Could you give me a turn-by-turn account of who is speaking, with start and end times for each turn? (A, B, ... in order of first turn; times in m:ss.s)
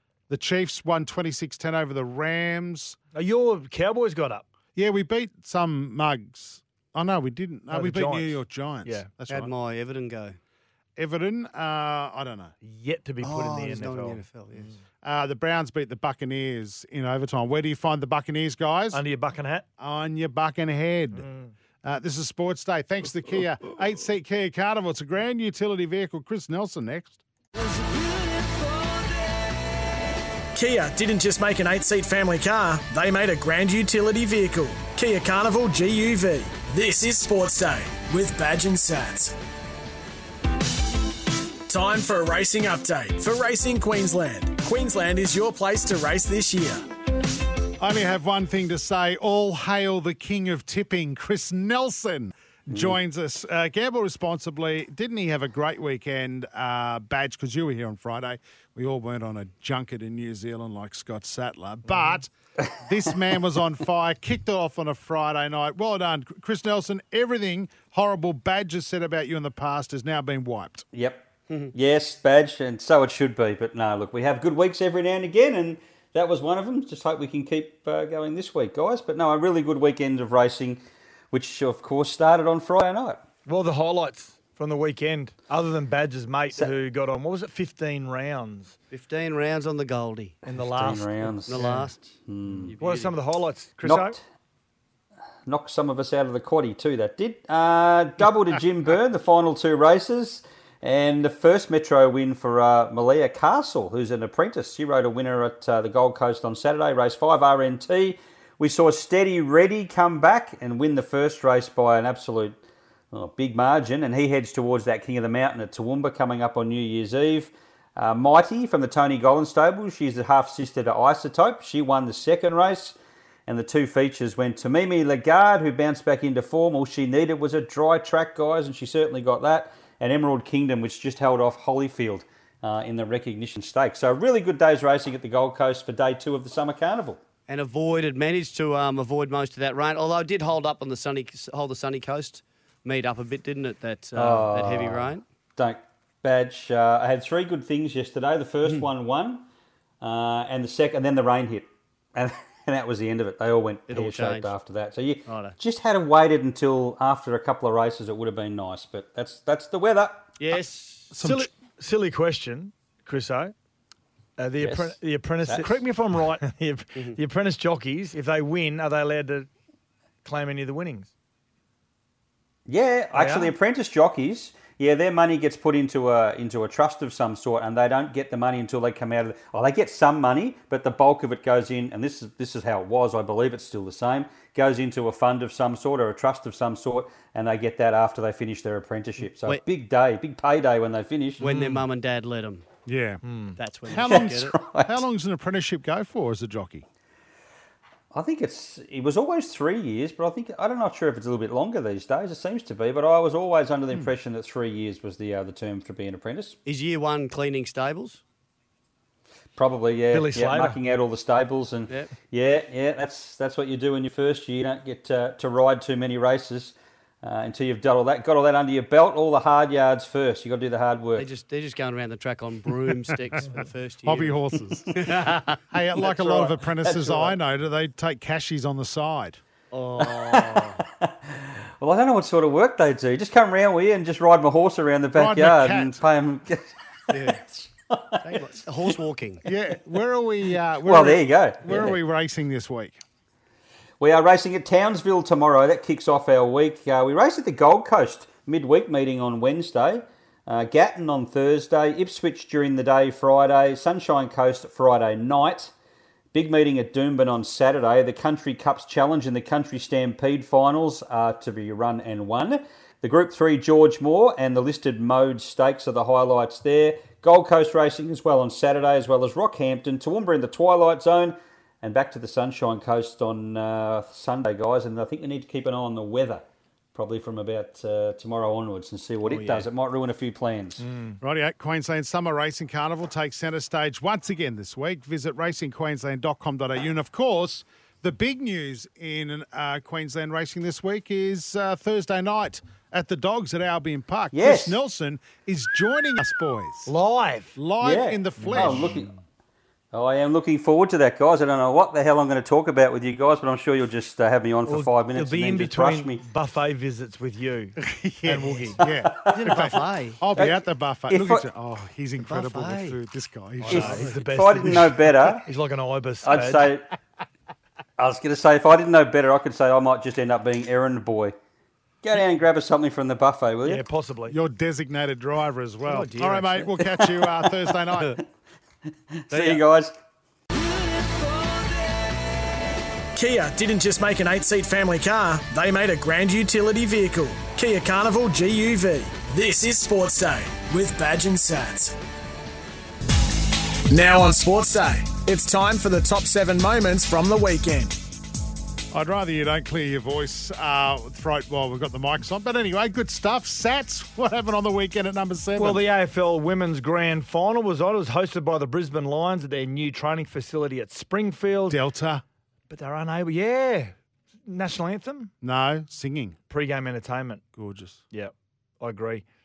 0:00.3-0:03.0 A
0:03.1-0:04.5 B
0:04.8-0:09.5 A
0:07.7-0:09.1 B
0:09.3-0:10.4 C
0:11.0-0:12.5 A
0:12.6-0:14.2 B
0:13.2-0:14.8 C
0:15.0-0:19.0 A
0:18.9-0:19.7 B
0:19.8-0:21.3 A
0:21.2-0:21.5 B
0:21.8-0:27.2 A
0:30.5-0:39.4 D
0:41.7-0:46.8 D
0:47.8-1:10.8 A
1:10.9-1:20.8 E
1:21.3-1:23.2 E
1:23.5-1:28.8 B
1:28.9-1:30.4 C
1:30.4-1:31.9 B
1:30.6-1:31.7 E
1:31.5-1:33.2 C
1:32.3-1:32.7 E
1:32.8-1:34.2 B
1:33.8-1:34.2 E
1:35.5-1:52.6 E
1:53.1-2:03.0 E
2:03.5-2:17.2 E
2:17.5-2:25.2 C
2:24.2-2:29.4 E
2:30.0-2:40.3 E
2:33.9-2:34.5 C
2:35.3-2:35.6 C
2:40.4-2:41.1 C
2:41.1-2:41.5 A
2:41.2-2:43.5 B
2:44.4-2:49.5 B
2:44.6-2:45.8 E
2:50.2-2:51.1 B
2:52.7-3:11.5 E
2:53.1-2:53.5 B
3:09.2-3:09.6 C
3:11.4-3:12.7 C
3:11.4-3:11.8 B
3:12.9-3:13.2 A
3:13.2-3:13.6 B
3:13.6-3:14.6 C
3:13.9-3:16.9 A
3:14.0-3:15.0 E
3:18.1-3:26.6 E
3:26.6-3:28.2 C
3:29.6-3:41.3 E
3:30.1-3:30.8 B
3:41.2-3:44.4 C
3:44.0-3:49.4 A
3:44.9-3:47.3 C
3:49.7-3:50.8 C
3:50.0-3:58.2 E
3:55.1-3:56.0 A
3:57.1-3:57.4 C
3:58.2-3:59.4 C
3:59.4-4:03.0 A
4:00.8-4:02.0 E
4:04.0-4:15.7 E
4:16.3-4:36.4 E
4:37.0-4:40.8 E
4:39.2-4:39.7 C
4:40.8-4:41.2 B
4:41.2-4:56.9 A
4:54.3-4:54.8 E
4:56.9-4:57.6 B
4:57.6-4:59.1 A
4:57.8-4:59.1 E
4:58.4-4:58.8 B
4:59.9-5:06.2 E
5:04.7-5:08.8 B
5:07.8-5:14.2 A
5:09.3-5:10.2 C
5:10.4-5:11.4 E
5:12.2-5:13.0 C
5:13.6-5:16.7 B
5:13.7-5:15.4 E
5:16.2-5:16.9 E
5:18.0-5:21.4 E
5:22.0-5:23.8 E
5:23.6-5:24.4 B
5:24.3-5:28.2 A
5:25.9-5:27.0 C
5:29.3-5:30.0 E
5:29.3-5:29.6 C
5:33.2-5:42.0 D
5:43.9-5:48.0 D
5:48.9-5:55.8 A
5:55.6-6:01.8 B
6:01.7-6:02.2 A
6:02.7-6:03.9 B
6:04.5-6:05.3 B
6:05.4-6:06.4 A
6:06.5-6:07.4 B
6:07.6-6:08.0 A
6:08.1-6:09.2 B